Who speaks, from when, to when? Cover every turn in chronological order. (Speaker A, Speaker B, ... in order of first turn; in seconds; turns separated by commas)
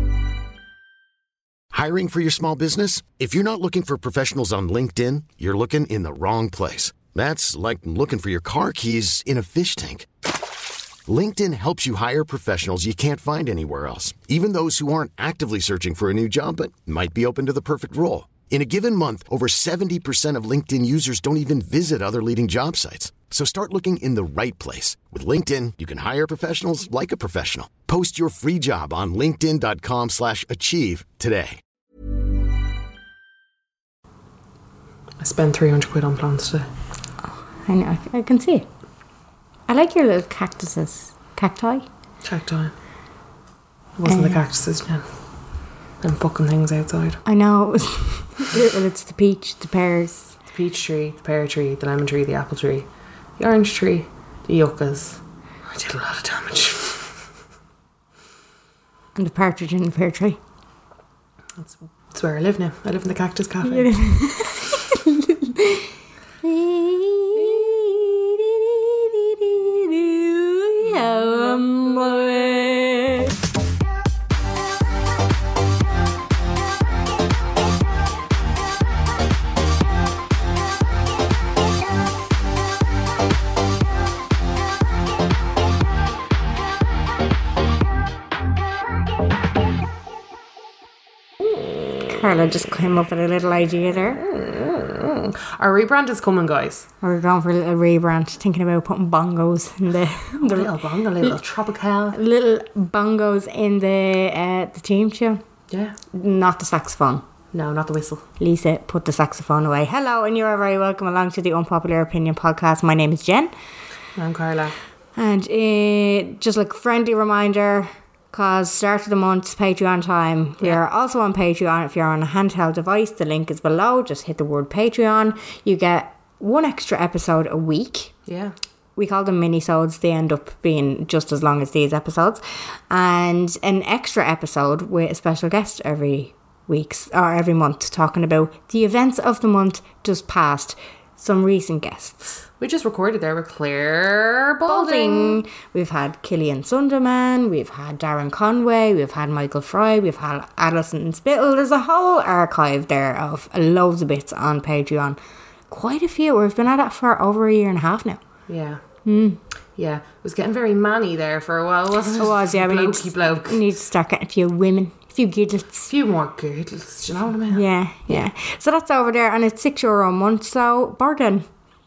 Speaker A: 1.7-10.1, Speaker A: 11.1-31.6, Speaker B: 35.2-36.7, Speaker C: 37.6-38.6, Speaker C: 39.7-41.9, Speaker B: 42.2-42.7, Speaker B: 44.0-45.0, Speaker C: 44.1-44.4, Speaker B: 46.0-47.2, Speaker C: 47.2-50.3, Speaker B: 50.5-52.9, Speaker B: 53.4-57.1, Speaker C: 59.1-60.4, Speaker B: 61.6-63.9, Speaker C: 63.6-65.9, Speaker C: 66.4-73.3, Speaker B: 70.9-71.6, Speaker C: 92.1-94.2, Speaker B: 94.2-96.9, Speaker C: 97.0-100.7, Speaker B: 100.4-102.2, Speaker C: 102.1-105.4, Speaker B: 105.7-106.0, Speaker C: 106.1-107.2, Speaker B: 107.5-108.2, Speaker C: 108.4-113.5, Speaker B: 114.2-114.8, Speaker C: 115.2-128.1, Speaker B: 128.3-128.5, Speaker C: 128.9-142.2, Speaker B: 142.6-145.4, Speaker C: 144.7-155.2, Speaker C: 155.7-158.2, Speaker B: 158.5-158.8, Speaker C: 159.0-159.4, Speaker B: 159.8-163.6, Speaker C: 162.2-165.9, Speaker B: 165.9-168.2, Speaker C: 167.5-171.4